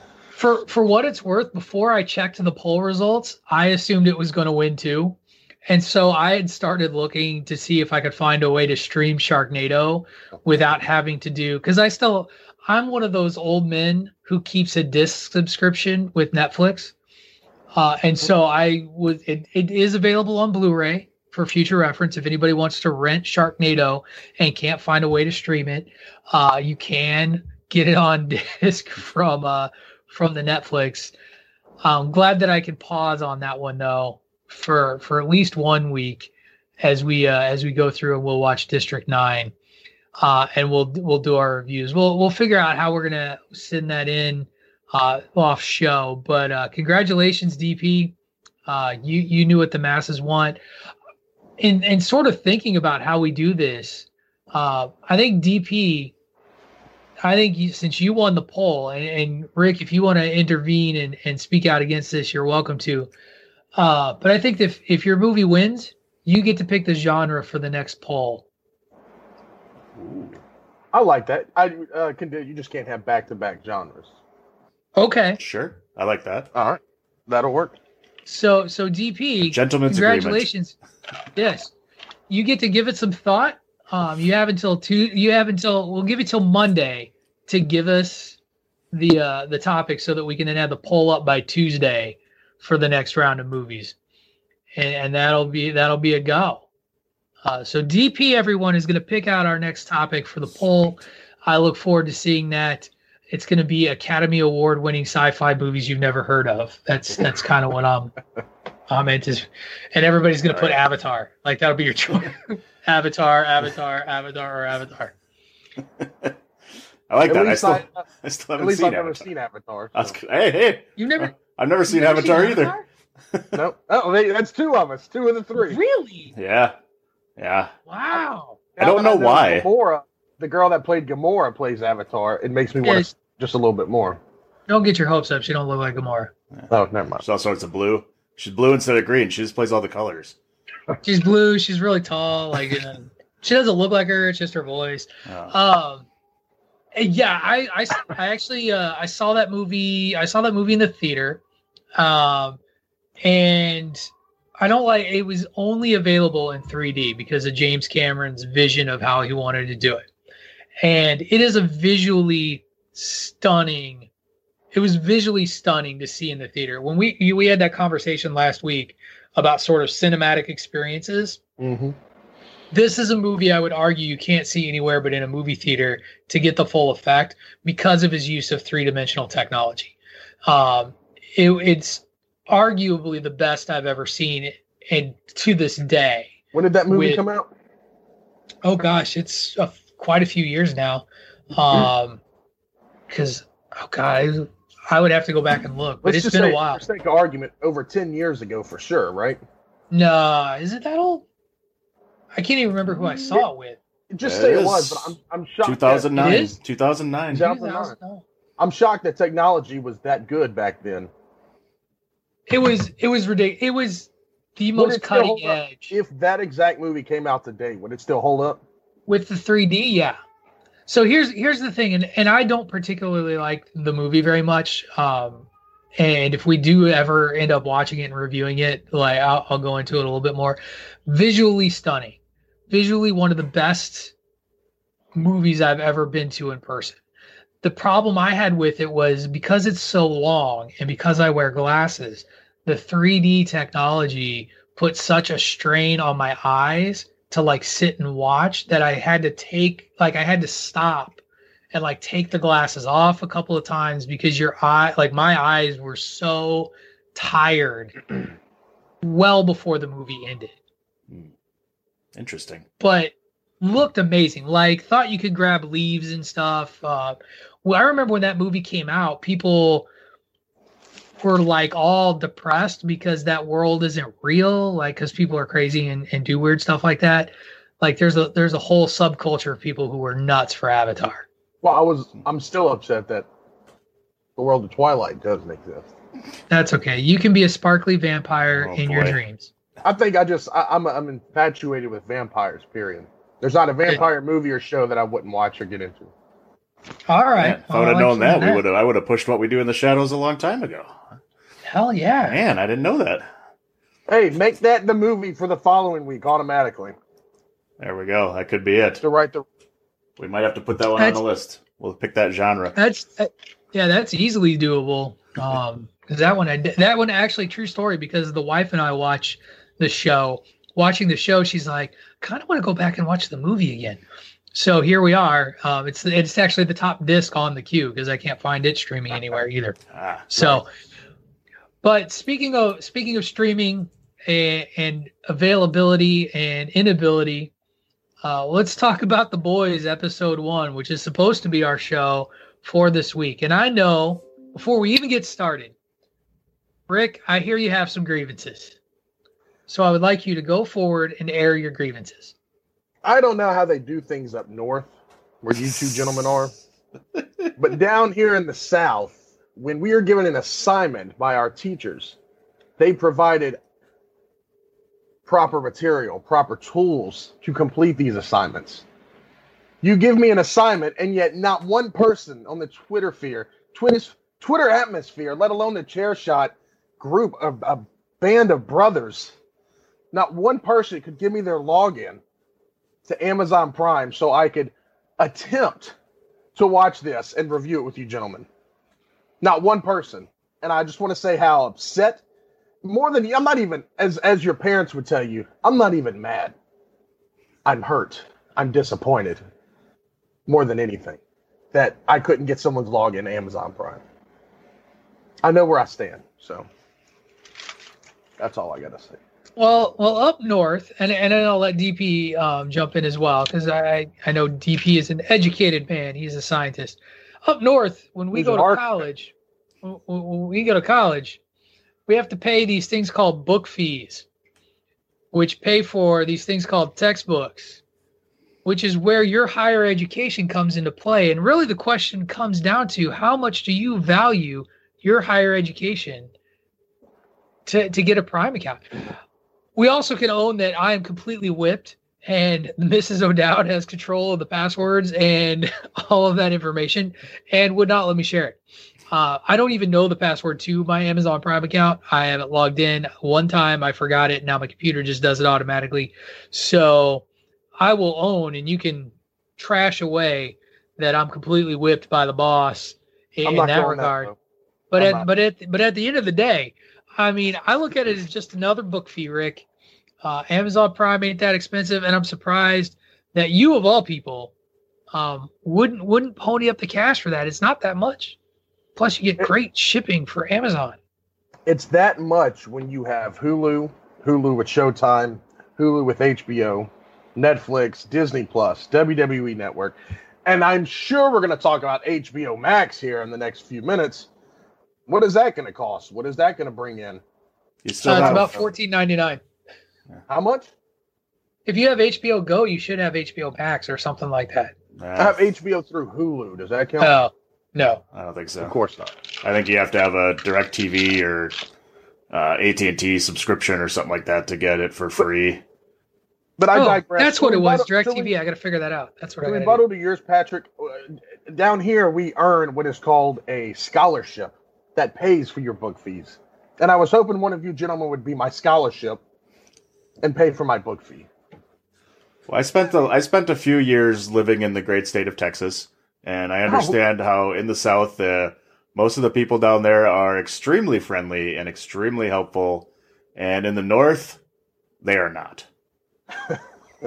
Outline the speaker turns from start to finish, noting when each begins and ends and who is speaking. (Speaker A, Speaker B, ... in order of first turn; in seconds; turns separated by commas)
Speaker A: 0.3-16.9, Speaker A: 17.7-31.1, Speaker A: 31.8-39.5, Speaker A: 40.2-48.1, Speaker A: 48.7-50.6, Speaker A: 51.6-56.1, Speaker A: 57.2-63.1, Speaker A: 63.8-68.4, Speaker B: 70.0-70.4, Speaker C: 70.9-74.1, Speaker A: 75.0-75.4, Speaker B: 75.4-76.5, Speaker C: 76.5-77.8, Speaker A: 78.2-80.8, Speaker B: 79.5-80.5, Speaker A: 81.3-81.7, Speaker A: 82.3-88.4, Speaker A: 88.9-93.9, Speaker A: 94.8-96.6, Speaker A: 97.4-108.1, Speaker A: 108.9-115.1, Speaker B: 110.5-110.8, Speaker B: 116.0-116.3, Speaker B: 117.1-119.3, Speaker C: 117.2-118.0, Speaker C: 118.6-120.1, Speaker B: 120.0-122.8, Speaker A: 121.0-121.3, Speaker A: 121.9-122.8, Speaker C: 123.5-125.8, Speaker A: 125.6-126.3, Speaker B: 126.3-126.8, Speaker B: 127.4-127.7, Speaker A: 127.9-128.6, Speaker C: 128.8-134.2, Speaker B: 128.8-129.7, Speaker A: 132.8-133.1, Speaker A: 134.7-136.3, Speaker C: 136.7-137.2, Speaker B: 137.2-140.3, Speaker A: 141.0-146.0, Speaker B: 145.3-145.5, Speaker A: 146.9-151.4, Speaker A: 152.0-152.6, Speaker A: 153.2-154.1, Speaker A: 154.6-160.1, Speaker A: 160.8-164.1, Speaker A: 164.7-171.4, Speaker C: 171.6-171.9, Speaker A: 172.7-179.9, Speaker A: 180.5-186.3, Speaker C: 186.5-187.5, Speaker A: 186.9-187.2, Speaker A: 188.6-192.2, Speaker A: 193.1-196.8, Speaker C: 196.0-199.4, Speaker A: 199.9-201.2, Speaker A: 202.3-203.8, Speaker C: 204.1-206.3, Speaker B: 204.2-207.5, Speaker A: 206.2-206.6, Speaker C: 207.3-207.9, Speaker A: 207.3-208.2, Speaker C: 208.6-211.1, Speaker A: 212.5-215.9, Speaker C: 214.8-218.6, Speaker A: 219.1-220.2, Speaker A: 220.9-232.2, Speaker A: 232.7-234.1, Speaker A: 235.1-237.0, Speaker A: 237.6-251.2, Speaker A: 251.7-258.0, Speaker A: 259.0-260.5, Speaker B: 262.1-262.6, Speaker A: 262.8-269.9, Speaker A: 271.2-281.2, Speaker C: 281.6-283.3, Speaker C: 284.4-285.9, Speaker A: 286.5-289.5, Speaker B: 288.5-289.2, Speaker C: 289.8-296.1, Speaker A: 297.1-298.6, Speaker B: 297.4-300.9, Speaker A: 301.7-302.4, Speaker B: 302.2-303.3, Speaker C: 304.1-306.9, Speaker B: 307.8-309.0, Speaker C: 309.0-309.4, Speaker B: 310.2-312.8, Speaker A: 312.8-324.0, Speaker A: 324.5-329.8, Speaker B: 329.9-330.3, Speaker A: 330.3-330.6, Speaker A: 331.8-337.5, Speaker A: 338.2-345.7, Speaker A: 346.9-348.8, Speaker A: 349.7-352.3, Speaker C: 353.0-356.5, Speaker B: 355.5-356.4, Speaker C: 357.6-362.1, Speaker C: 362.8-363.6, Speaker C: 365.2-368.9, Speaker C: 369.8-379.3, Speaker C: 380.1-382.2, Speaker C: 383.1-385.9, Speaker C: 386.5-388.5, Speaker C: 389.4-392.2, Speaker C: 392.8-396.5, Speaker C: 397.6-399.4, Speaker C: 400.5-401.2, Speaker C: 401.7-404.0, Speaker C: 405.4-406.7, Speaker C: 408.4-409.2, Speaker A: 409.6-421.4, Speaker C: 418.3-418.8, Speaker A: 422.1-424.2, Speaker A: 425.3-427.8, Speaker A: 428.6-436.3, Speaker A: 437.6-439.0, Speaker A: 439.8-457.2, Speaker A: 457.8-464.3, Speaker C: 463.4-464.3, Speaker A: 464.9-469.6, Speaker C: 465.0-465.3, Speaker A: 470.2-474.5, Speaker A: 475.1-478.4, Speaker A: 478.9-481.0, Speaker C: 481.6-494.3, Speaker C: 495.1-497.2, Speaker B: 497.8-498.6, Speaker C: 498.0-498.7, Speaker A: 498.0-499.4, Speaker C: 500.3-500.7, Speaker A: 501.6-504.7, Speaker B: 505.0-505.5, Speaker C: 505.2-507.1, Speaker A: 507.0-508.0, Speaker B: 508.1-508.8, Speaker C: 508.6-509.0, Speaker B: 509.4-511.6, Speaker B: 512.3-515.6, Speaker C: 516.6-518.3, Speaker A: 516.7-519.8, Speaker C: 519.4-529.2, Speaker C: 530.2-531.3, Speaker B: 532.5-544.4, Speaker C: 536.7-537.0, Speaker B: 545.0-545.7